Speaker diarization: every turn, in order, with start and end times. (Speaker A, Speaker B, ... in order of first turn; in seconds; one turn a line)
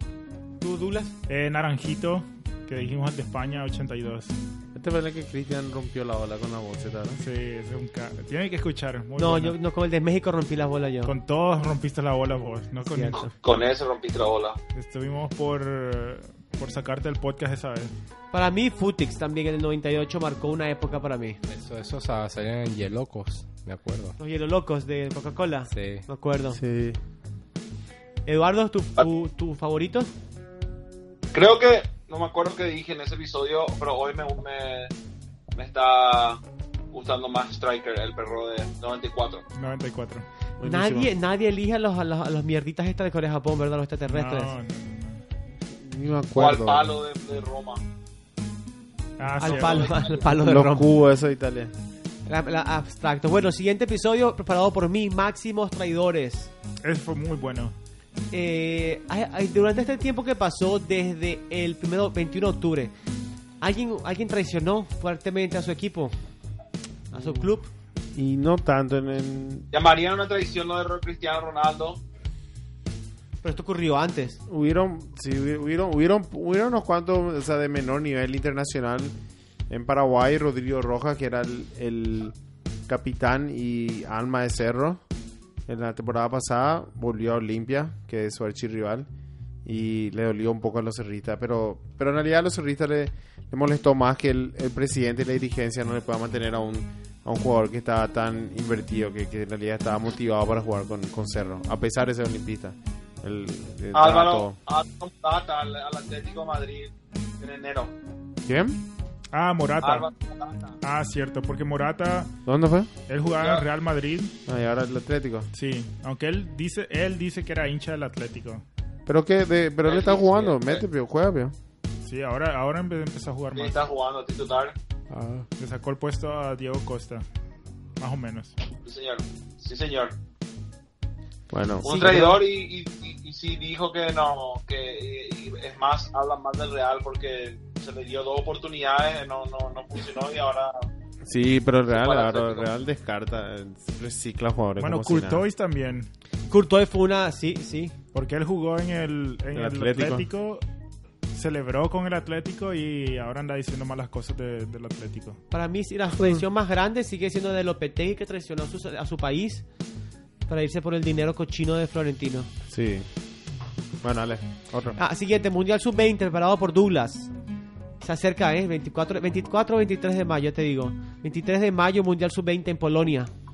Speaker A: 0.6-1.1
Speaker B: 1.3-4.3
Speaker C: 4.7-7.2
Speaker B: 7.2-9.6
Speaker A: 9.2-11.1
Speaker B: 11.1-13.3
Speaker A: 12.9-13.3
Speaker D: 13.4-14.6
Speaker B: 14.8-17.9
Speaker A: 18.3-21.4
Speaker E: 21.5-24.2
Speaker A: 24.2-26.6
Speaker E: 25.7-26.1
Speaker C: 26.5-27.0
Speaker A: 28.3-30.1
Speaker D: 31.3-34.9
Speaker D: 35.5-36.4
Speaker D: 36.9-39.4
Speaker B: 39.5-40.3
Speaker C: 40.6-41.1
Speaker A: 40.6-44.5
Speaker B: 44.1-45.2
Speaker C: 45.8-47.0
Speaker D: 46.4-47.8
Speaker B: 49.2-50.0
Speaker A: 49.4-50.9
Speaker D: 49.4-50.2
Speaker C: 50.3-51.7
Speaker A: 52.3-56.5
Speaker B: 56.8-57.8
Speaker A: 58.3-62.9
Speaker A: 63.6-66.2
Speaker A: 67.1-67.7
Speaker C: 67.2-67.4
Speaker C: 68.1-69.7
Speaker D: 69.7-72.0
Speaker A: 73.4-74.4
Speaker C: 74.5-79.2
Speaker C: 79.7-82.4
Speaker C: 82.9-85.0
Speaker C: 85.7-89.1
Speaker C: 89.7-104.6
Speaker D: 103.9-107.9
Speaker C: 108.5-108.8
Speaker B: 109.3-110.1
Speaker D: 109.8-110.8
Speaker B: 110.8-112.3
Speaker C: 112.5-112.9
Speaker B: 113.1-114.3
Speaker D: 113.4-113.6
Speaker C: 114.5-115.5
Speaker B: 115.5-118.6
Speaker C: 119.1-121.6
Speaker D: 119.8-120.8
Speaker B: 122.0-123.8
Speaker D: 123.5-124.8
Speaker C: 125.1-125.4
Speaker B: 125.6-127.2
Speaker B: 128.0-128.5
Speaker D: 128.8-130.2
Speaker C: 131.5-132.4
Speaker D: 131.8-140.9
Speaker A: 131.9-132.4
Speaker C: 141.2-145.4
Speaker D: 141.9-142.7
Speaker B: 144.8-146.1
Speaker A: 146.5-147.9
Speaker B: 148.1-150.6
Speaker C: 149.5-150.3
Speaker B: 151.3-155.4
Speaker A: 155.5-159.7
Speaker A: 160.5-162.5
Speaker C: 162.7-163.1
Speaker C: 164.0-165.0
Speaker A: 165.0-167.3
Speaker A: 168.0-173.3